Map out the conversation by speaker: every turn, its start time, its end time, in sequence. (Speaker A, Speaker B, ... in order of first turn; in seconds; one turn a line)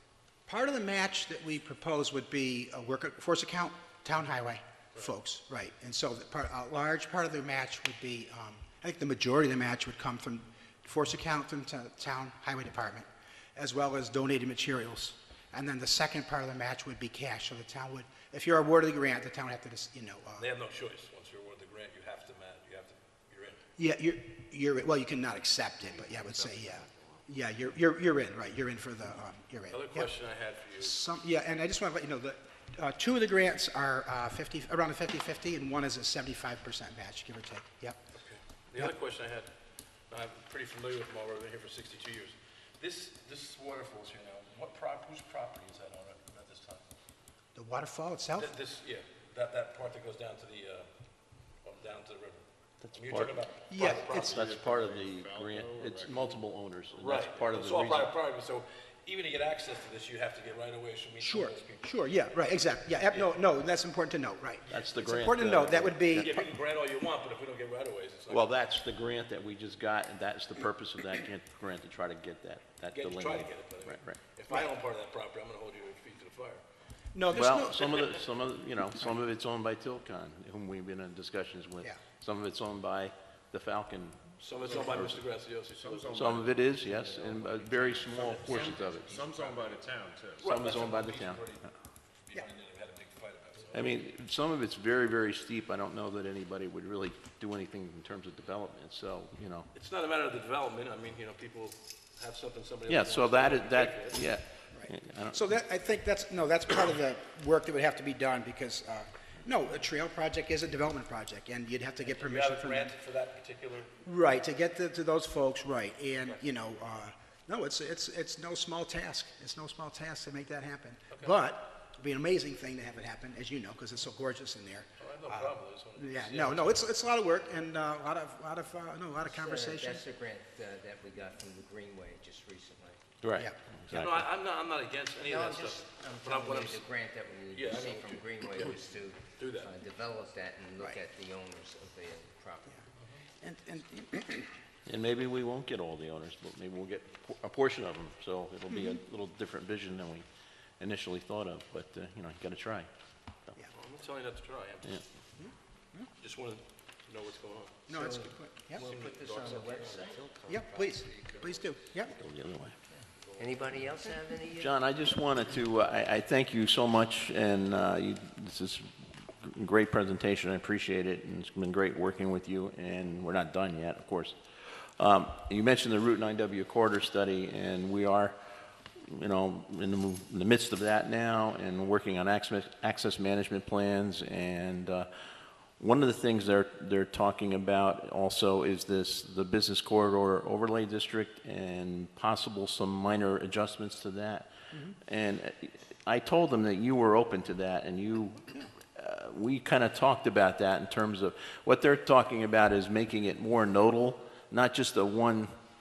Speaker A: 0.5-20.4
Speaker B: 20.4-23.6
Speaker A: 23.8-30.1
Speaker B: 29.7-31.0
Speaker A: 30.8-38.0
Speaker B: 38.1-39.5
Speaker B: 40.1-46.8
Speaker A: 47.5-48.5
Speaker B: 48.4-50.9
Speaker B: 51.6-54.3
Speaker C: 52.8-58.1
Speaker A: 53.7-54.4
Speaker D: 54.1-56.4
Speaker B: 57.0-61.9
Speaker A: 61.2-66.5
Speaker C: 64.7-66.3
Speaker B: 66.1-68.5
Speaker C: 68.3-74.2
Speaker B: 72.9-76.6
Speaker A: 77.1-77.9
Speaker C: 77.3-85.2
Speaker B: 84.4-86.4
Speaker D: 85.8-90.4
Speaker C: 86.1-89.2
Speaker B: 87.6-89.9
Speaker B: 90.4-91.7
Speaker C: 90.4-91.5
Speaker B: 92.2-93.9
Speaker C: 93.7-99.7
Speaker B: 99.7-104.2
Speaker C: 102.9-105.4
Speaker A: 104.7-112.9
Speaker B: 112.0-114.0
Speaker A: 114.0-130.0
Speaker B: 125.0-126.9
Speaker E: 129.2-133.0
Speaker C: 133.2-134.2
Speaker B: 133.9-136.8
Speaker E: 135.2-142.8
Speaker B: 137.5-138.8
Speaker B: 139.3-139.7
Speaker A: 143.4-144.5
Speaker C: 144.8-150.2
Speaker A: 148.7-149.0
Speaker C: 150.8-152.9
Speaker B: 153.7-155.0
Speaker A: 155.4-156.1
Speaker B: 156.2-157.9
Speaker A: 157.9-158.8
Speaker E: 157.9-161.1
Speaker B: 158.8-160.2
Speaker A: 160.5-162.1
Speaker B: 161.1-161.5
Speaker C: 162.1-162.8
Speaker E: 162.9-164.7
Speaker B: 163.1-163.8
Speaker C: 164.6-178.4
Speaker C: 179.1-185.1
Speaker C: 185.8-194.5
Speaker C: 195.1-205.5